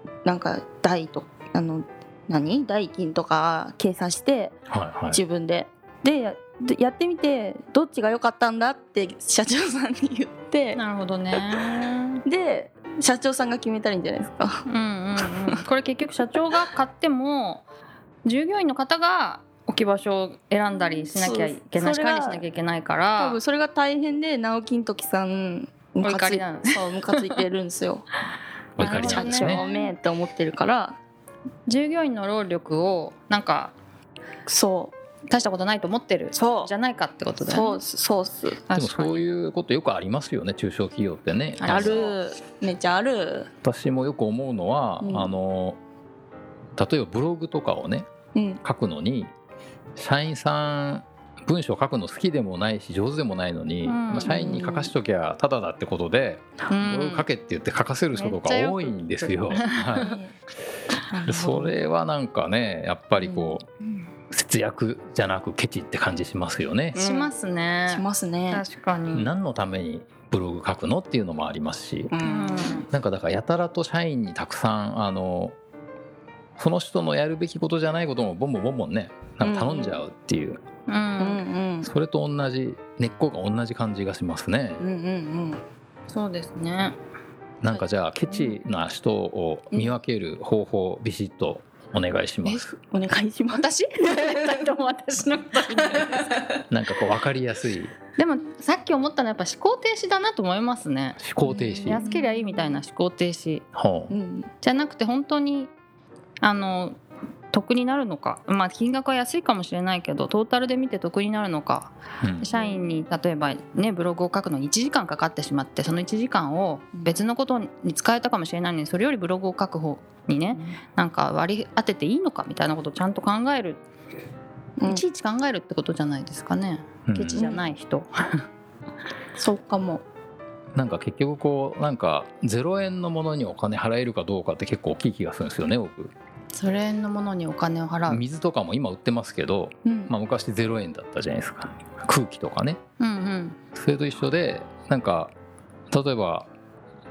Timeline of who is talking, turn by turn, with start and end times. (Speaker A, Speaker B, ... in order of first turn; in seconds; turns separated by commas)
Speaker A: 0.2-4.5, Speaker B: 4.7-5.2, Speaker A: 5.1-10.8, Speaker C: 10.7-12.2, Speaker A: 11.3-11.6, Speaker A: 12.2-14.6, Speaker C: 14.7-17.6, Speaker A: 15.3-15.6, Speaker C: 18.2-23.4, Speaker A: 20.8-22.4, Speaker A: 23.1-28.0, Speaker C: 26.0-27.3, Speaker B: 28.8-29.6, Speaker C: 28.8-29.9, Speaker A: 28.8-30.9, Speaker C: 31.7-33.7, Speaker A: 34.5-34.9, Speaker C: 35.3-37.8, Speaker A: 36.3-36.7, Speaker A: 37.5-38.6, Speaker C: 38.7-39.2, Speaker B: 38.7-42.0, Speaker C: 41.6-42.1, Speaker A: 41.6-43.5, Speaker B: 43.6-45.8, Speaker A: 45.0-45.3, Speaker B: 46.8-48.1, Speaker A: 48.3-48.6, Speaker B: 48.6-49.3, Speaker B: 50.0-60.1, Speaker C: 53.9-54.8, Speaker A: 54.2-54.9, Speaker C: 56.7-57.3, Speaker C: 58.1-60.1, Speaker A: 60.0-60.3, Speaker A: 61.0-61.7, Speaker B: 61.2-63.6, Speaker C: 63.2-63.5, Speaker B: 64.3-67.0, Speaker C: 66.9-69.3, Speaker A: 66.9-67.3, Speaker A: 67.9-68.6, Speaker B: 69.1-72.1, Speaker A: 72.1-72.8, Speaker C: 72.2-72.9, Speaker B: 72.9-75.5, Speaker B: 76.6-80.6, Speaker A: 79.4-80.0, Speaker C: 80.9-81.4, Speaker A: 81.2-81.9, Speaker B: 81.8-84.8, Speaker A: 84.8-85.6, Speaker C: 86.1-87.0, Speaker B: 87.6-92.7, Speaker A: 92.4-94.5, Speaker C: 93.5-96.4, Speaker A: 95.9-96.2, Speaker B: 96.7-97.9, Speaker C: 98.2-101.2, Speaker B: 101.2-102.0, Speaker A: 101.4-102.8, Speaker C: 101.8-103.6, Speaker B: 103.7-104.1, Speaker A: 104.1-104.5, Speaker C: 104.6-105.7, Speaker C: 106.4-107.0, Speaker C: 107.5-123.8, Speaker B: 112.2-112.5, Speaker A: 112.5-112.8, Speaker A: 116.9-117.2, Speaker A: 120.5-120.8, Speaker C: 124.8-128.4, Speaker B: 127.1-127.5, Speaker A: 127.3-127.7, Speaker A: 129.3-130.0, Speaker B: 130.7-136.1, Speaker C: 136.5-138.2, Speaker B: 138.1-142.8, Speaker A: 139.8-140.1, Speaker C: 143.0-143.6, Speaker B: 143.7-145.3, Speaker B: 145.9-146.5